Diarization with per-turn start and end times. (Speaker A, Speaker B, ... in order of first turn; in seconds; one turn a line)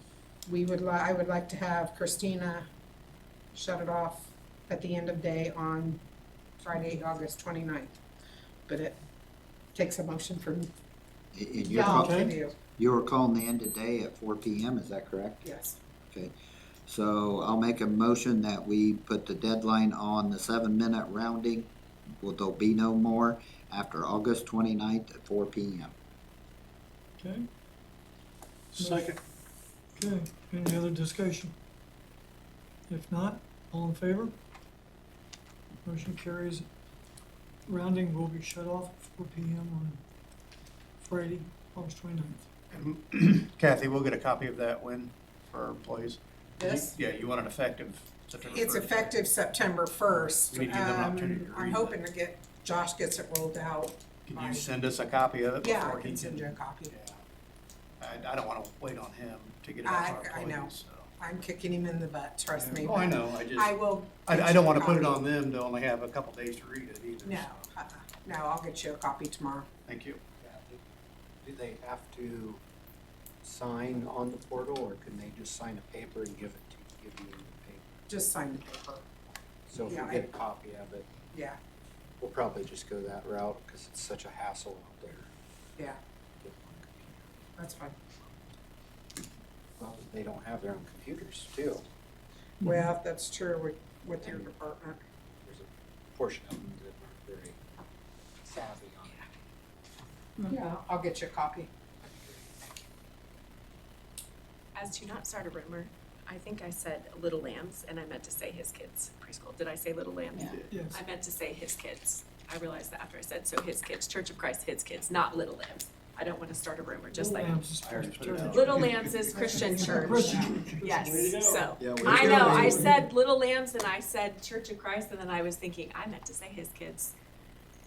Speaker A: 0.5-2.7
Speaker A: 3.5-6.0
Speaker A: 6.6-7.9
Speaker A: 8.7-9.0
Speaker A: 9.7-10.7
Speaker B: 11.3-15.4
Speaker A: 11.6-12.5
Speaker C: 11.8-12.3
Speaker A: 15.4-15.8
Speaker B: 16.9-21.7
Speaker B: 22.2-25.9
Speaker C: 27.2-27.4
Speaker D: 28.7-29.2
Speaker C: 28.8-29.1
Speaker C: 29.9-31.5
Speaker C: 32.9-34.3
Speaker C: 35.8-36.7
Speaker C: 37.7-40.0
Speaker C: 41.0-42.5
Speaker D: 42.7-49.1
Speaker A: 46.6-46.9
Speaker A: 48.4-54.7
Speaker D: 50.5-52.0
Speaker D: 54.3-57.2
Speaker A: 55.6-56.9
Speaker D: 58.0-61.1
Speaker A: 59.8-65.2
Speaker D: 62.5-67.5
Speaker A: 67.2-69.7
Speaker D: 69.9-70.2
Speaker E: 70.4-70.8
Speaker E: 71.4-72.6
Speaker E: 73.4-77.9
Speaker A: 78.1-79.0
Speaker E: 79.7-81.1
Speaker A: 79.8-80.2
Speaker A: 81.3-81.6
Speaker E: 82.2-85.3
Speaker E: 86.4-87.2
Speaker A: 87.6-87.9
Speaker E: 89.8-91.8
Speaker C: 92.6-92.9
Speaker A: 92.6-95.0
Speaker E: 95.4-97.6
Speaker E: 98.4-99.3
Speaker A: 100.5-101.7
Speaker E: 102.0-102.9
Speaker F: 104.7-117.6
Speaker D: 110.4-110.7
Speaker C: 110.7-111.0
Speaker C: 117.1-119.0
Speaker D: 117.8-119.5
Speaker F: 118.4-127.1
Speaker A: 119.3-120.6
Speaker C: 119.6-123.0
Speaker B: 121.8-122.9